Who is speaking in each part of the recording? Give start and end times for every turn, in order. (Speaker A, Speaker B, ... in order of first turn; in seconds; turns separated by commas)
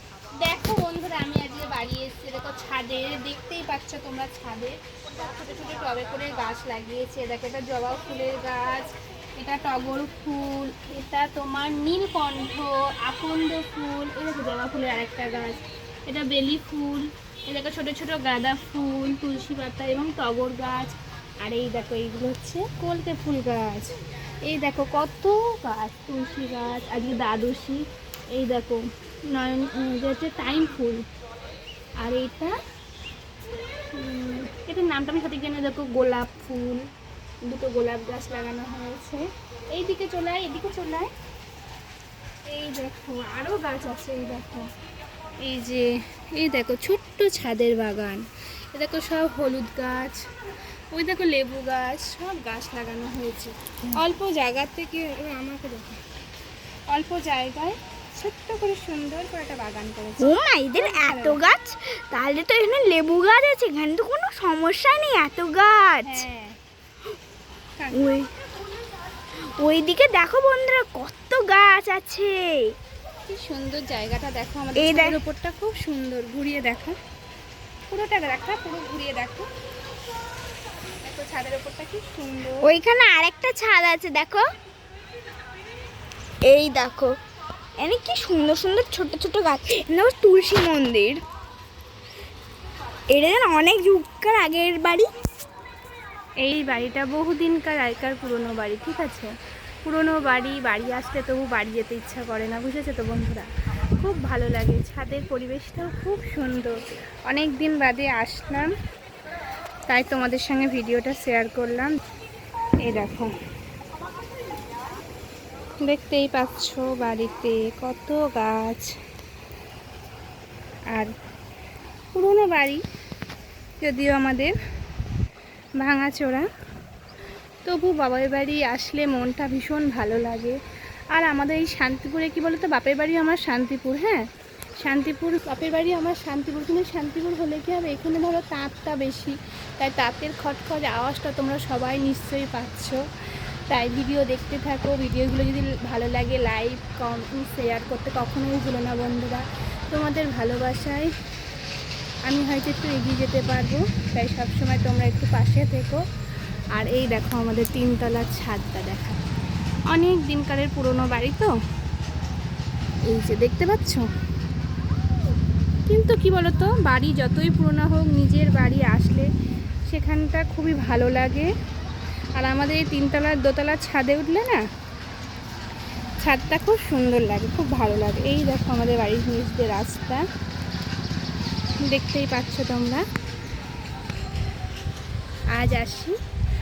Speaker A: 0.4-23.9, Speaker A: 24.5-27.8, Speaker A: 28.3-31.0, Speaker A: 32.0-32.5, Speaker A: 34.0-36.8, Speaker A: 37.5-41.1, Speaker A: 42.5-44.7, Speaker A: 45.4-50.2, Speaker A: 50.9-56.0, Speaker A: 56.9-61.4, Speaker B: 60.2-66.2, Speaker A: 66.0-66.6, Speaker A: 67.8-68.1, Speaker B: 67.9-68.3, Speaker B: 69.6-72.7, Speaker A: 73.3-77.0, Speaker B: 74.8-75.2, Speaker A: 77.9-79.5, Speaker A: 81.0-82.7, Speaker B: 82.6-84.5, Speaker B: 86.5-87.1, Speaker B: 87.8-91.2, Speaker B: 93.1-95.1, Speaker A: 96.4-99.3, Speaker A: 99.8-106.8, Speaker A: 107.3-108.7, Speaker A: 109.9-111.9, Speaker A: 112.8-113.3, Speaker A: 115.8-118.9, Speaker A: 122.1-122.8, Speaker A: 123.8-124.5, Speaker A: 125.8-126.5, Speaker A: 127.7-130.6, Speaker A: 131.1-134.3, Speaker A: 134.8-143.0, Speaker A: 143.7-151.1, Speaker A: 152.3-156.0, Speaker A: 156.7-159.2, Speaker A: 159.9-161.5, Speaker A: 163.1-164.1, Speaker A: 165.9-169.3, Speaker A: 169.9-171.5, Speaker A: 172.4-174.6, Speaker A: 176.2-180.2, Speaker A: 181.9-183.0, Speaker A: 185.5-186.2